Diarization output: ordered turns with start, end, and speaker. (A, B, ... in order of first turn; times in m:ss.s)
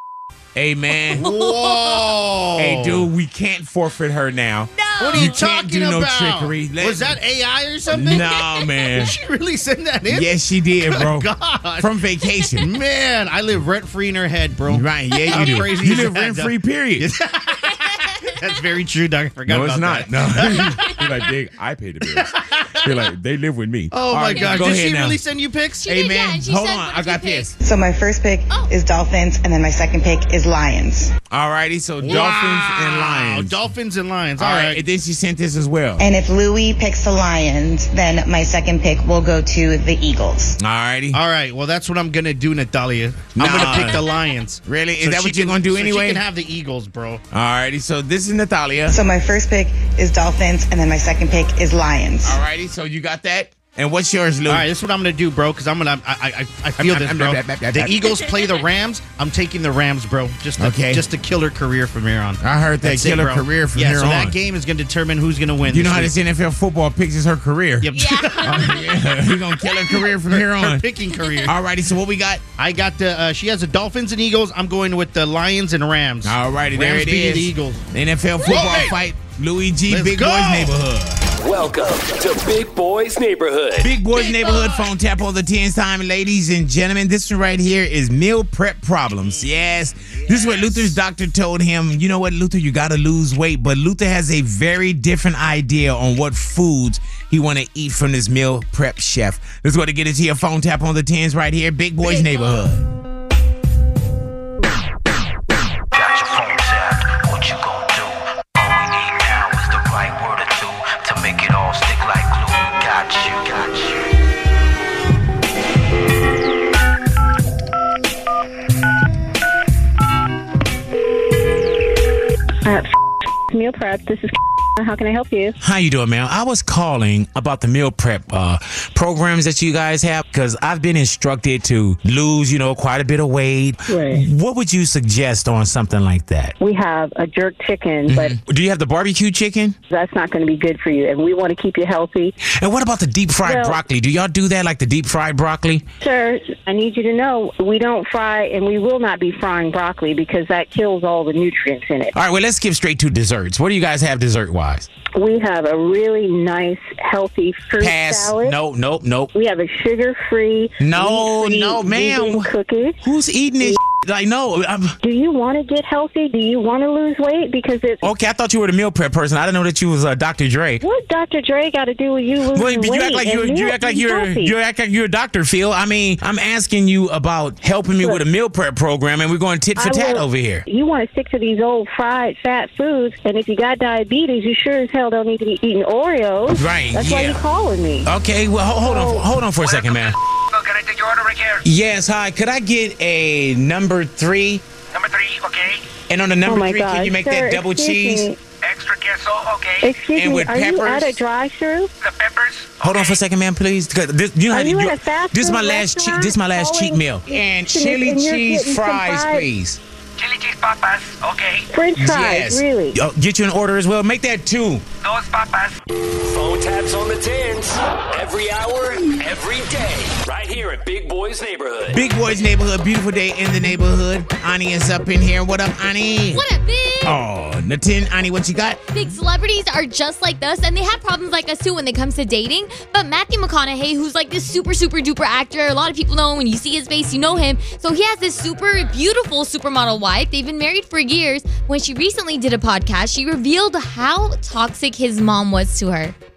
0:00.5-0:01.2 A
0:01.1-0:03.1 B
0:01.2-0:02.2 C
0:02.6-0:07.2 A
0:04.8-0:05.3 C
0:05.0-0:08.3 B
0:07.9-0:09.1 A
0:08.1-0:08.9 C
0:08.9-0:10.3 B
0:10.1-0:12.7 A
0:10.8-0:11.9 B
0:12.6-0:20.7 B
0:14.7-0:17.1 A
0:15.2-0:15.7 C
0:17.8-0:18.3 C
0:19.5-0:25.2 A
0:20.7-0:21.3 C
0:22.1-0:22.9 B
0:23.9-0:25.8 B
0:24.3-0:24.8 C
0:25.8-0:27.5 C
0:25.8-0:27.5 A
0:27.6-0:31.1 D
0:31.3-0:33.6 A
0:32.0-0:34.8 B
0:34.4-0:36.0 A
0:36.0-0:40.6 D
0:40.6-0:41.2 A
0:41.1-0:47.2 B
0:43.3-0:44.0 A
0:43.7-0:44.1 C
0:44.6-0:46.2 A
0:47.3-0:49.0 A
0:48.9-0:52.4 D
0:52.2-0:54.7 A
0:54.5-1:06.1 B
0:56.8-0:58.0 A
0:58.0-0:58.6 C
1:00.6-1:01.0 A
1:02.4-1:04.3 A
1:05.7-1:10.8 A
1:07.8-1:08.8 B
1:07.9-1:09.0 C
1:10.3-1:11.5 B
1:11.1-1:11.5 C
1:11.4-1:12.4 A
1:12.6-1:17.8 B
1:16.2-1:21.2 A
1:18.5-1:19.0 B
1:19.9-1:20.7 B
1:21.4-1:23.9 E
1:23.8-1:42.8 A
1:24.1-1:24.9 C
1:29.2-1:31.0 B
1:42.0-1:42.6 C
1:45.9-1:54.0 F
2:02.6-2:05.6 G
2:05.6-2:16.5 A
2:13.9-2:14.2 G
2:16.6-2:18.4 G
2:18.1-2:19.8 A
2:19.9-2:22.4 G
2:22.4-2:25.8 A
2:23.4-2:23.8 G
2:26.0-2:32.1 G
2:32.1-2:34.9 A
2:35.1-2:38.6 G
2:37.8-2:39.3 A
2:39.3-2:43.0 G
2:40.8-2:42.5 A
2:43.0-2:45.0 A
2:45.0-2:48.0 G
2:48.0-2:50.8 A
2:50.8-2:54.5 G
2:52.5-3:00.6 A
2:59.8-3:08.1 G
3:06.5-3:07.4 A
3:08.0-3:10.2 A
3:08.8-3:09.2 G
3:11.6-3:14.6 A
3:16.1-3:18.3 A
3:16.4-3:18.4 G
3:19.8-3:21.9 G
3:20.1-3:21.2 A
3:22.8-3:29.8 A
3:24.5-3:29.5 G
3:31.7-3:33.0 G
3:32.0-3:34.8 A
3:35.1-3:35.6 E
3:36.3-3:42.0 E
3:41.9-3:46.4 A
3:46.3-3:47.2 C
3:47.0-3:48.8 A
3:48.9-4:06.1 C